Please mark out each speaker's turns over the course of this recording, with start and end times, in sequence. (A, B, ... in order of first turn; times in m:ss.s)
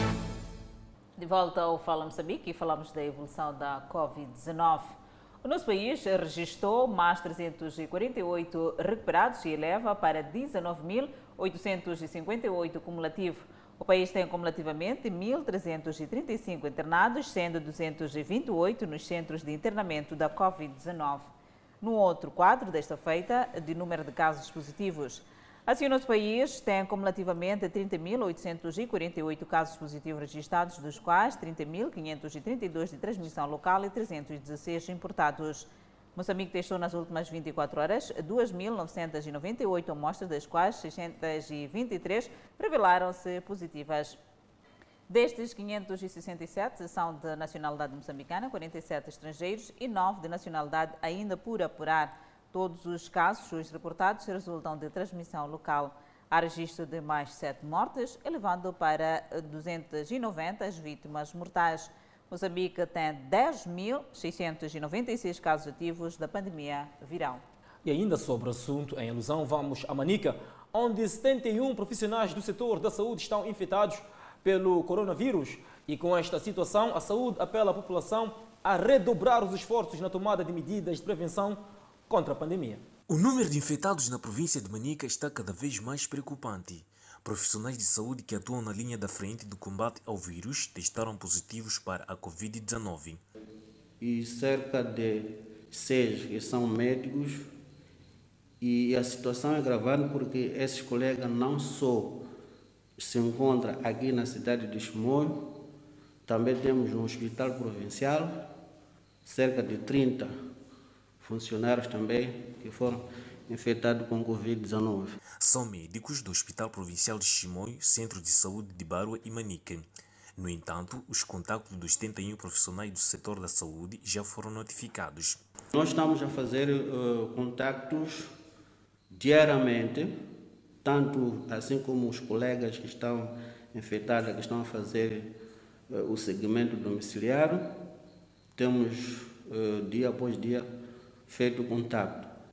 0:01.2-0:44.2 A
0:45.1-1:07.4 A
1:07.8-1:22.8 B
1:23.1-1:33.2 C
1:34.0-1:37.5 D
1:38.6-1:42.3 D
1:43.0-1:45.6 D
1:46.2-1:48.5 D
1:49.2-1:50.4 D
1:51.2-1:55.2 D
1:55.4-2:05.4 C
2:05.7-2:08.3 D
2:09.1-2:10.1 D
2:10.8-2:15.3 D
2:15.9-2:17.8 D
2:18.6-2:20.7 D
2:21.3-2:22.3 D